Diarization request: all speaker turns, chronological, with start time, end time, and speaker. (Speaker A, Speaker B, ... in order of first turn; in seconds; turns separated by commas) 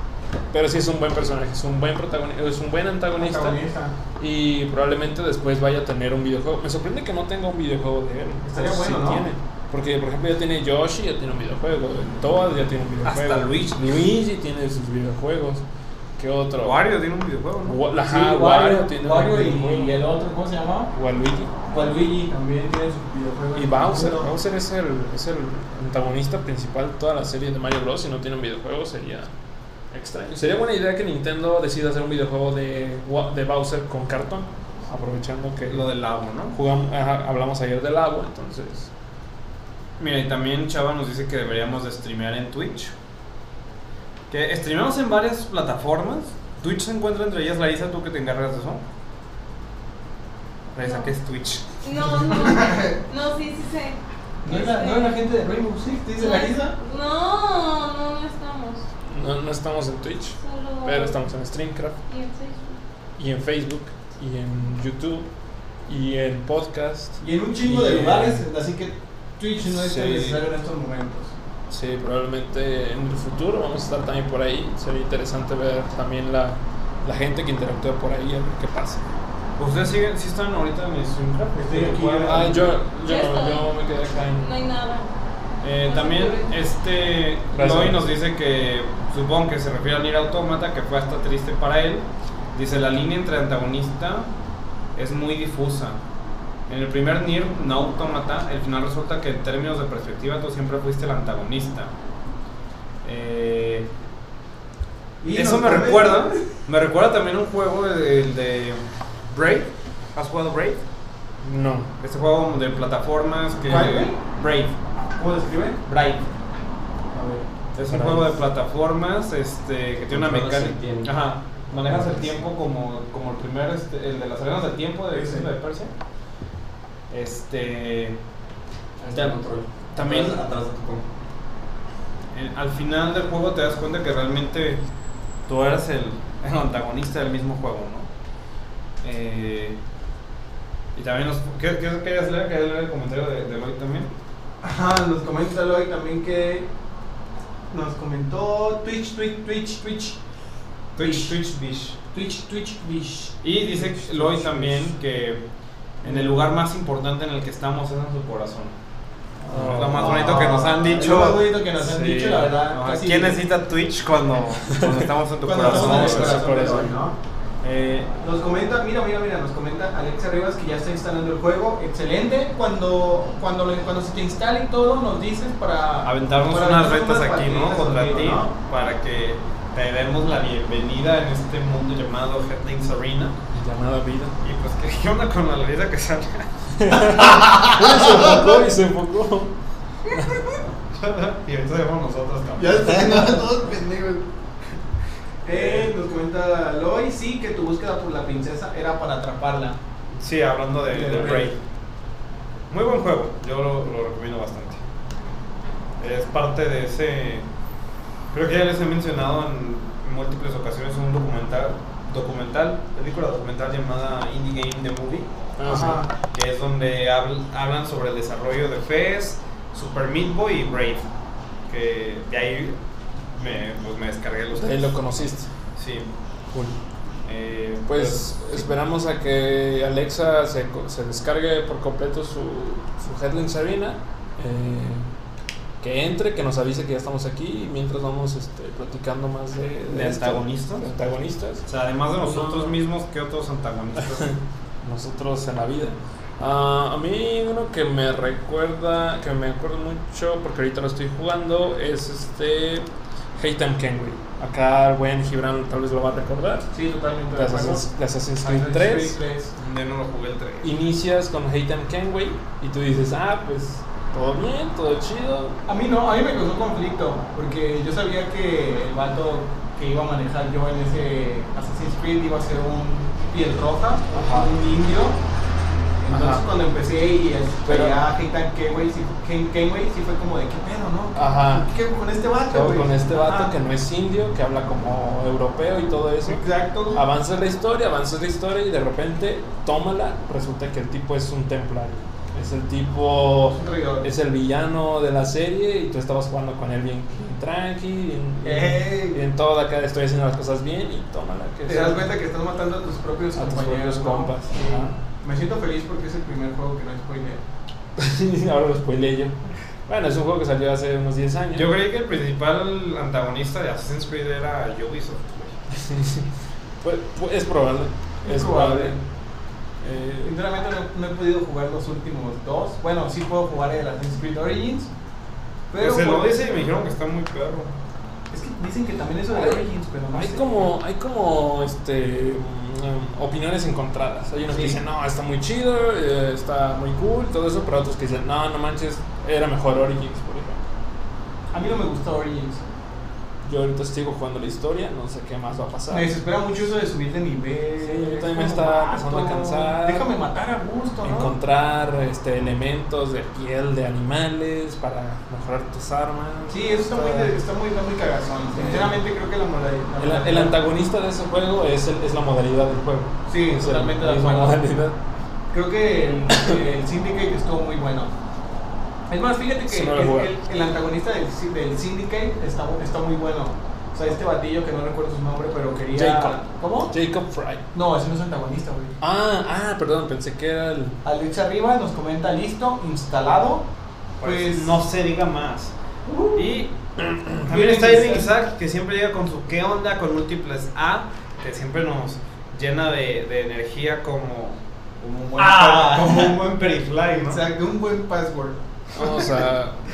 Speaker A: 0.5-3.6, Speaker B: 3.1-3.9, Speaker A: 4.2-15.6, Speaker B: 8.4-9.3, Speaker C: 13.0-13.9, Speaker A: 16.2-16.8, Speaker C: 16.6-17.8, Speaker A: 17.6-20.0, Speaker B: 18.0-20.9, Speaker A: 20.9-21.5, Speaker B: 21.7-24.3, Speaker A: 23.5-29.3, Speaker A: 29.9-35.9, Speaker C: 35.7-36.5, Speaker A: 36.5-38.9, Speaker C: 40.0-42.9, Speaker C: 44.3-48.8, Speaker C: 50.7-51.7, Speaker D: 50.8-51.1, Speaker D: 51.8-55.2, Speaker B: 52.3-52.9, Speaker B: 54.4-56.8, Speaker D: 56.1-58.8, Speaker A: 59.1-62.0, Speaker D: 60.4-61.2, Speaker D: 62.1-62.8, Speaker A: 63.2-65.3, Speaker A: 65.9-68.5, Speaker B: 67.2-71.3, Speaker A: 69.7-70.4, Speaker A: 71.7-79.0, Speaker C: 79.6-82.7, Speaker B: 81.5-82.8, Speaker A: 82.2-84.5, Speaker D: 83.0-83.8, Speaker D: 84.4-85.1, Speaker C: 85.6-94.3, Speaker D: 85.8-86.5, Speaker A: 87.5-88.1, Speaker C: 94.9-96.0, Speaker C: 96.7-101.9, Speaker C: 103.0-103.9, Speaker B: 105.2-106.5, Speaker C: 105.3-110.8, Speaker A: 111.4-111.9, Speaker C: 112.0-114.7, Speaker B: 113.7-114.2, Speaker B: 115.2-115.8, Speaker C: 115.8-116.3, Speaker B: 117.1-117.4, Speaker C: 117.8-125.9, Speaker A: 117.8-118.4, Speaker E: 120.1-121.1, Speaker E: 121.7-122.4, Speaker B: 125.1-125.5, Speaker C: 127.1-128.2, Speaker E: 129.0-131.0, Speaker C: 129.9-130.4, Speaker C: 132.3-134.8, Speaker C: 135.5-138.1, Speaker C: 139.0-139.8, Speaker C: 140.9-144.1, Speaker B: 144.6-146.7, Speaker B: 147.7-150.2, Speaker C: 150.9-152.0, Speaker B: 151.0-151.3, Speaker B: 152.1-154.7, Speaker C: 153.4-155.4, Speaker C: 156.0-158.8, Speaker B: 156.0-156.4, Speaker B: 159.4-163.4, Speaker A: 159.5-160.5, Speaker C: 159.5-161.6, Speaker A: 161.7-162.6, Speaker C: 162.7-166.6, Speaker B: 165.4-167.1, Speaker A: 165.6-167.1, Speaker C: 167.6-168.1, Speaker B: 168.2-178.5, Speaker C: 176.0-183.4, Speaker A: 183.5-184.3, Speaker C: 184.4-186.5, Speaker A: 186.8-189.5, Speaker B: 187.1-188.6, Speaker A: 190.1-190.6, Speaker C: 190.9-193.4, Speaker B: 192.6-194.2, Speaker B: 195.4-199.8, Speaker C: 195.5-195.9, Speaker C: 200.2-201.6, Speaker B: 200.9-201.5, Speaker C: 202.7-204.8, Speaker C: 206.0-207.4, Speaker C: 208.3-221.0, Speaker A: 215.6-216.1, Speaker B: 215.6-216.1, Speaker C: 221.7-222.8, Speaker C: 223.3-225.2, Speaker A: 224.5-225.5, Speaker C: 225.8-226.1, Speaker C: 227.2-228.6, Speaker A: 227.8-235.1, Speaker A: 235.8-242.7, Speaker C: 239.8-240.8, Speaker C: 241.7-244.3, Speaker A: 244.2-256.7, Speaker B: 256.7-257.9, Speaker A: 257.3-259.2, Speaker B: 258.4-259.5, Speaker C: 259.6-260.7, Speaker A: 260.6-265.6, Speaker B: 265.7-275.2, Speaker A: 274.1-274.5, Speaker B: 276.0-283.5, Speaker A: 276.1-276.4, Speaker A: 277.6-278.0, Speaker A: 281.1-281.7, Speaker A: 282.5-302.1, Speaker B: 286.2-287.0, Speaker B: 293.5-294.1, Speaker B: 298.4-299.2, Speaker B: 301.7-307.4, Speaker A: 303.3-304.9, Speaker A: 308.0-311.7, Speaker C: 311.5-315.6, Speaker A: 315.7-316.2, Speaker A: 316.8-319.0, Speaker B: 318.2-319.0, Speaker A: 319.8-320.4, Speaker B: 320.2-324.9, Speaker B: 325.7-326.4, Speaker C: 325.8-327.7, Speaker B: 328.3-330.7, Speaker A: 329.3-340.6, Speaker B: 334.5-334.8, Speaker B: 341.5-342.6, Speaker A: 343.4-346.1, Speaker B: 345.9-351.3, Speaker A: 347.8-350.1, Speaker A: 351.0-357.4, Speaker B: 356.5-360.6, Speaker A: 358.5-359.0, Speaker A: 360.0-365.0, Speaker B: 363.3-364.6, Speaker B: 365.5-368.1, Speaker A: 366.3-366.6, Speaker B: 369.1-376.9, Speaker A: 369.7-370.4, Speaker A: 375.9-377.6, Speaker B: 377.7-378.9, Speaker A: 379.0-381.0, Speaker B: 381.0-383.6, Speaker C: 384.2-385.7, Speaker B: 384.2-384.9, Speaker B: 386.1-386.4, Speaker C: 386.3-386.7, Speaker A: 387.1-387.4, Speaker C: 387.4-397.4, Speaker B: 387.4-388.3, Speaker B: 395.3-396.4, Speaker B: 397.3-399.2, Speaker A: 398.9-399.8